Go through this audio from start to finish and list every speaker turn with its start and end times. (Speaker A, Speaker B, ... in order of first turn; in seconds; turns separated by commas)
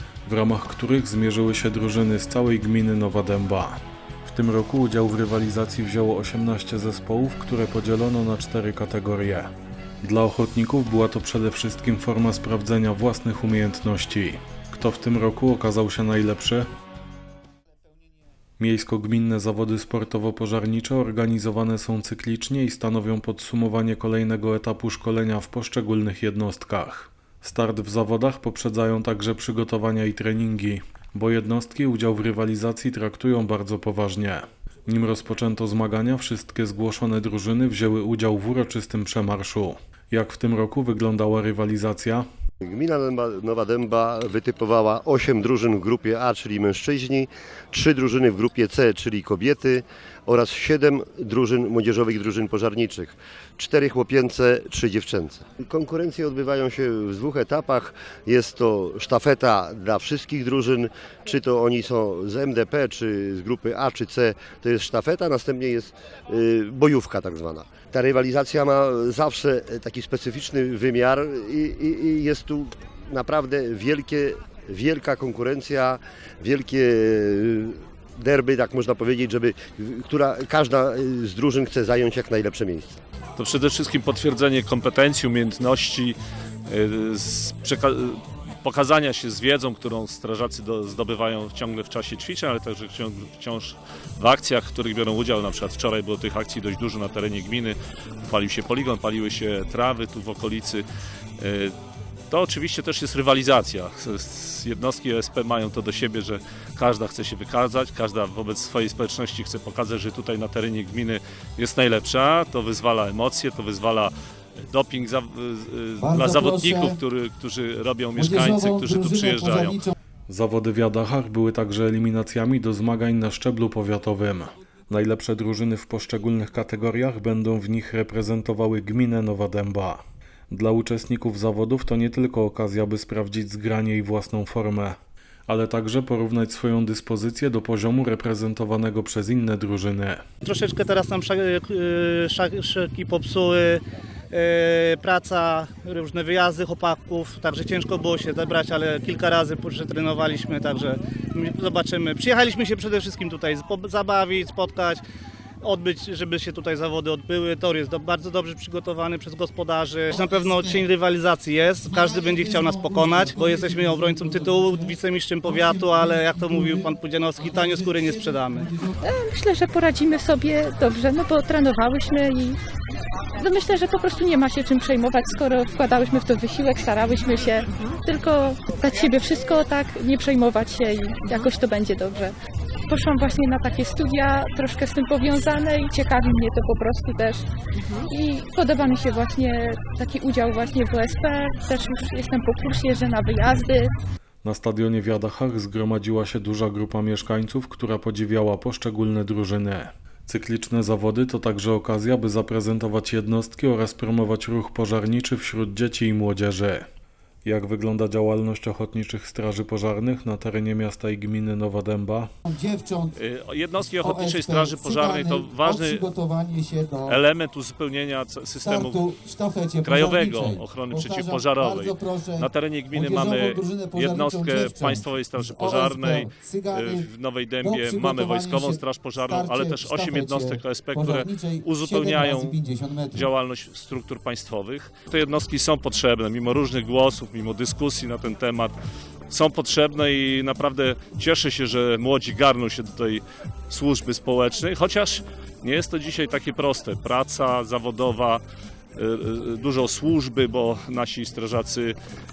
Speaker A: 0.3-9.5, Speaker A: 10.0-16.7, Speaker A: 18.6-42.3, Speaker B: 42.6-83.0, Speaker C: 83.4-86.2, Speaker C: 86.7-100.8, Speaker C: 101.4-101.7, Speaker C: 102.3-114.1, Speaker C: 114.7-119.8, Speaker D: 116.0-117.0, Speaker D: 118.2-119.9, Speaker A: 120.3-140.2, Speaker E: 140.4-155.0, Speaker E: 155.6-168.7, Speaker D: 160.1-160.9, Speaker D: 161.8-169.0, Speaker F: 169.0-172.6, Speaker F: 173.4-182.3, Speaker F: 182.9-193.9, Speaker A: 194.4-206.9, Speaker A: 207.4-212.3, Speaker D: 212.5-213.2, Speaker C: 213.2-216.1, Speaker D: 214.0-217.2, Speaker C: 217.1-219.1, Speaker D: 218.6-227.1, Speaker C: 219.8-232.6, Speaker D: 227.6-233.3, Speaker C: 233.1-238.8, Speaker C: 239.3-248.4, Speaker C: 249.0-252.0